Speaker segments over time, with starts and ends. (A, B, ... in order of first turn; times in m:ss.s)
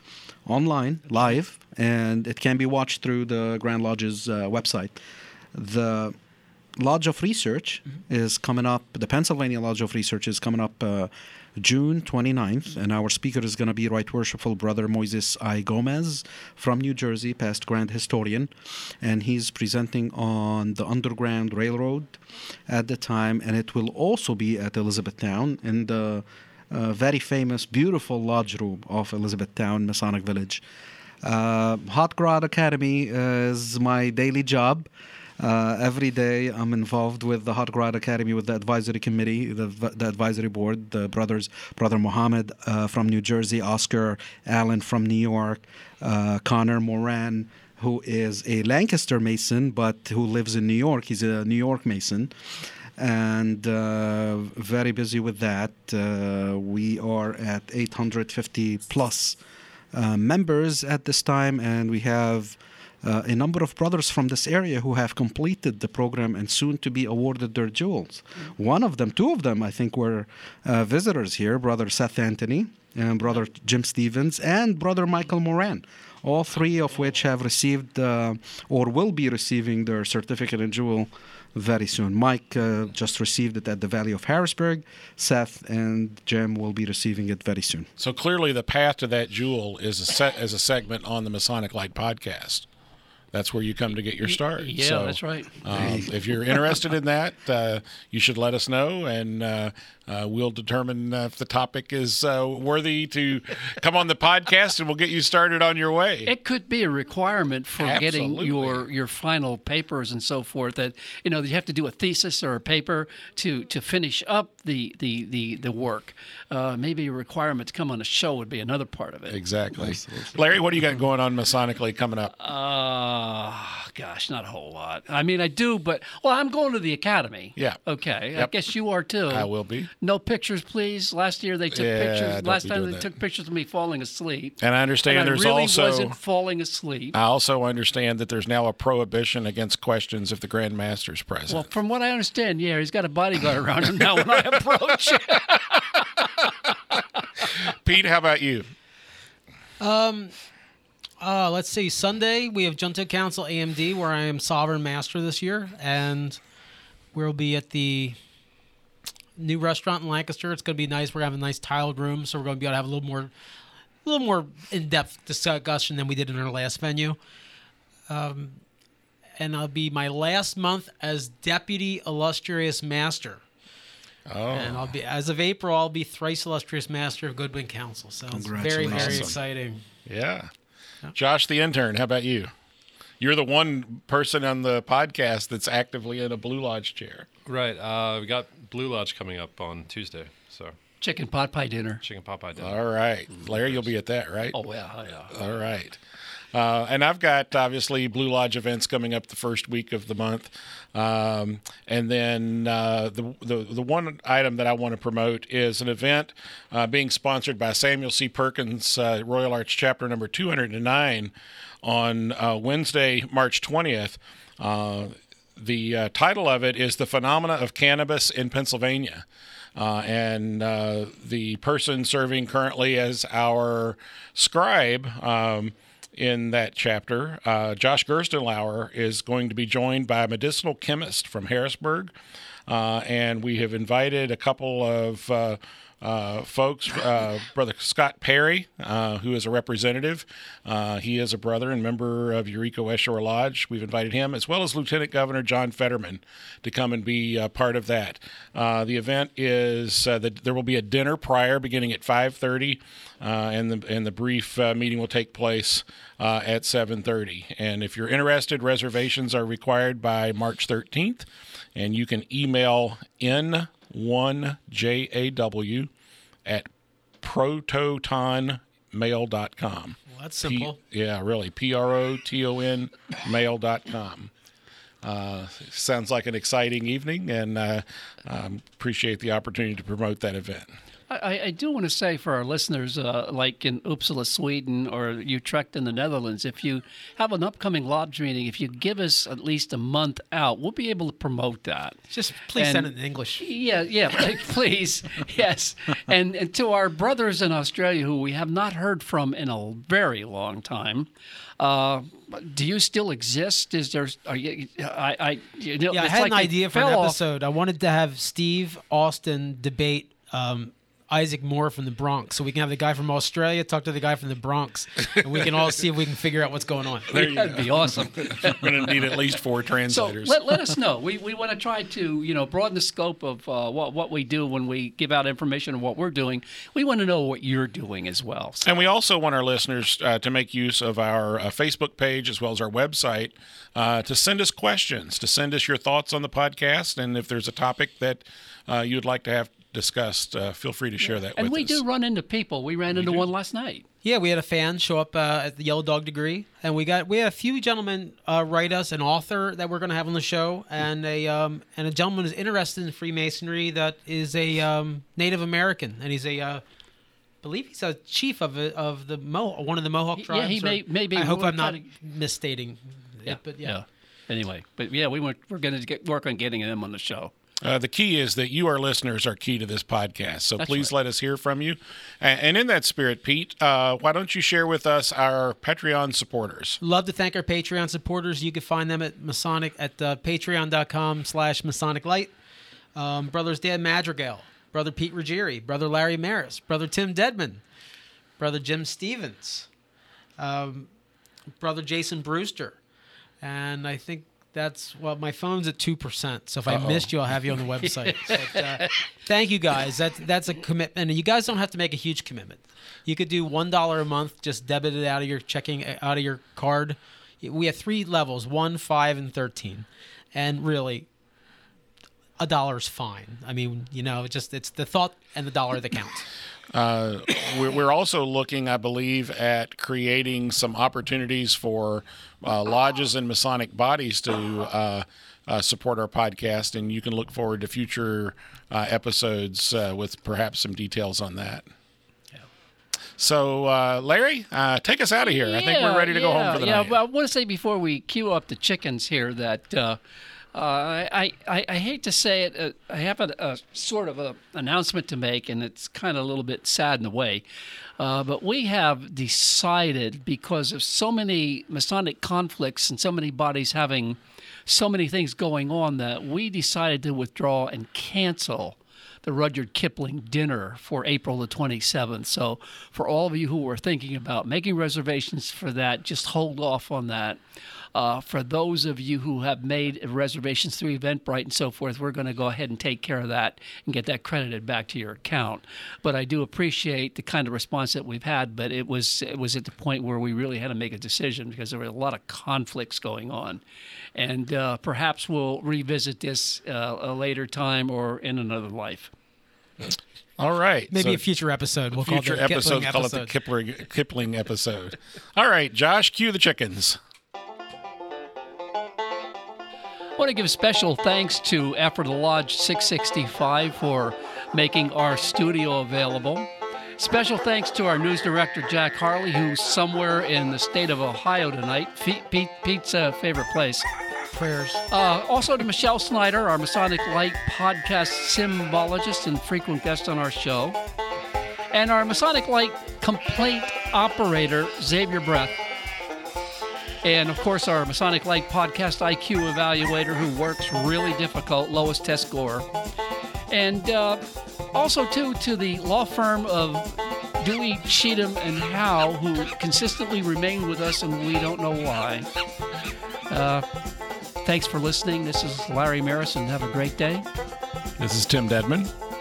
0:00.4-0:05.0 A
0:05.5-0:06.2 A
0:06.8-0:30.6 A
0:31.2-0:34.9 A
0:35.4-0:52.3 A
0:53.0-0:59.4 A
0:59.9-1:27.9 A
1:28.0-1:32.7 B
1:33.3-1:46.3 B
1:34.2-1:36.0 C
1:35.7-1:36.1 A
1:46.2-1:59.4 C
1:47.8-1:48.9 B
1:59.3-2:02.3 B
1:59.8-2:00.3 A
2:02.4-2:09.5 C
2:09.3-2:09.9 B
2:10.0-2:17.2 C
2:11.7-2:13.1 B
2:14.6-2:16.2 B
2:17.1-2:21.6 B
2:21.5-2:26.2 C
2:27.6-2:28.7 B
2:29.8-2:30.3 D
2:31.2-2:36.4 D
2:37.1-2:38.2 D
2:39.4-2:43.3 D
2:44.0-2:47.2 D
2:48.1-2:48.6 D
2:49.4-2:53.4 D
2:54.3-2:54.9 B
2:54.5-2:59.8 D
2:58.3-2:59.3 A
2:58.8-2:59.4 B
3:00.0-3:00.5 B
3:01.1-3:02.5 B
3:03.2-3:07.3 B
3:07.4-3:10.8 E
3:11.0-3:12.0 C
3:12.0-3:13.9 E
3:12.6-3:14.6 B
3:14.5-3:15.3 C
3:15.3-3:16.0 B
3:16.5-3:39.2 B
3:39.8-3:52.1 B
3:52.7-4:25.9 B
4:27.2-4:34.3 B
4:30.1-4:30.8 D
4:35.0-4:40.7 B
4:41.1-4:52.0 C
4:52.1-4:53.4 D
4:52.6-5:01.1 C
5:01.6-5:07.2 C
5:05.9-5:17.1 D
5:17.1-5:20.4 B
5:17.1-5:19.4 C
5:19.9-5:28.8 C
5:28.6-5:41.8 B
5:41.0-5:43.8 C
5:42.9-5:43.3 B
5:44.0-5:56.6 D
5:57.4-6:03.8 D
6:00.2-6:01.9 C
6:03.3-6:07.3 C
6:07.6-6:16.8 B
6:10.6-6:10.9 C
6:16.8-6:22.3 D
6:23.0-6:27.6 D
6:28.4-6:29.7 D
6:30.4-6:30.9 D
6:31.6-6:32.8 D
6:33.4-6:51.1 D
6:36.7-6:37.1 B
6:52.4-6:56.3 D
6:56.7-7:11.7 B
7:13.2-7:17.0 B
7:15.2-7:20.0 C
7:20.5-7:27.4 C
7:28.0-7:47.4 C
7:47.9-8:03.6 C
8:04.2-8:09.1 C
8:10.4-8:11.2 B
8:10.9-8:13.3 D
8:11.9-8:17.0 B
8:20.2-8:33.8 C
8:34.3-8:34.8 D
8:34.9-8:40.8 C
8:41.7-8:45.6 C
8:47.0-8:52.7 C
8:53.5-9:02.3 C
9:03.3-9:03.6 C
9:04.4-9:07.2 C
9:08.0-9:08.9 B